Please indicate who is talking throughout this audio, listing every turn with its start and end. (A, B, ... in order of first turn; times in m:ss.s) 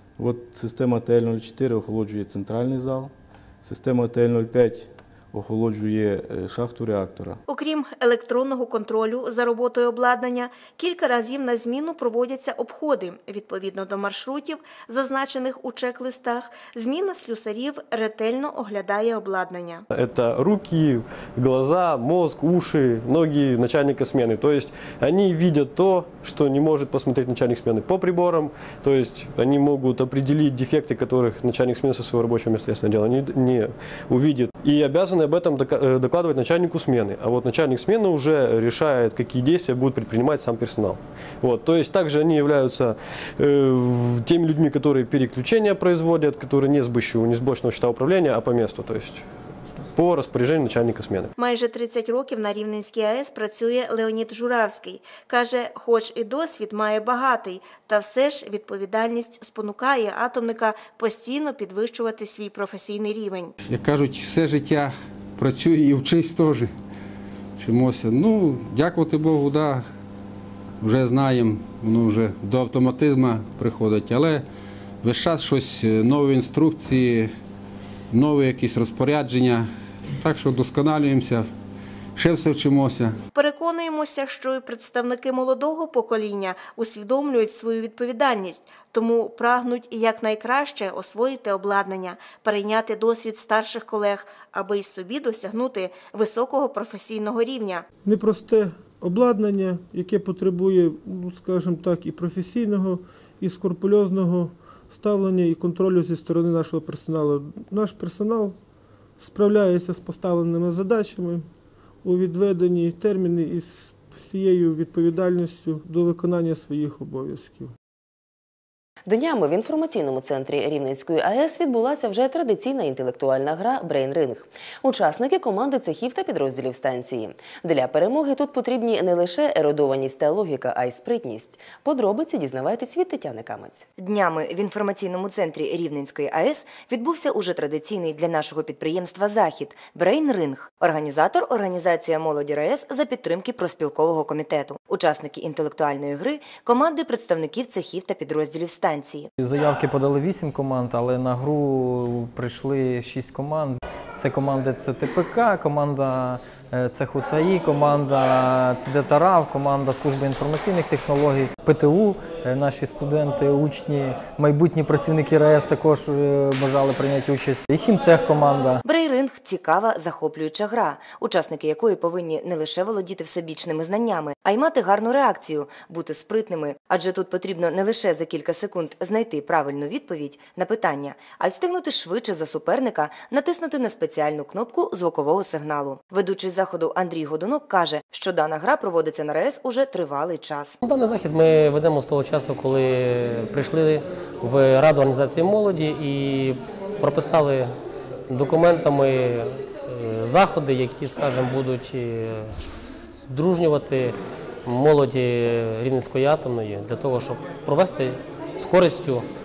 0:00.2-0:07.4 A
0:07.5-0:19.9 B
0:19.9-0:49.2 C
0:50.0-0:51.3 C
0:51.4-1:03.5 B
1:03.6-1:06.7 D
1:07.6-1:09.8 D
1:10.8-1:14.4 D
1:15.0-1:17.3 D
1:18.1-1:19.6 D
1:20.2-1:21.4 D
1:22.2-1:23.1 D
1:23.3-1:37.8 B
1:38.0-1:48.6 E
1:49.2-1:51.4 E
1:52.0-1:57.7 E
1:59.1-2:13.9 F
2:14.0-2:29.3 G
2:29.4-2:48.8 H
2:48.8-3:10.8 G
3:10.8-3:17.7 I
3:18.3-3:29.3 I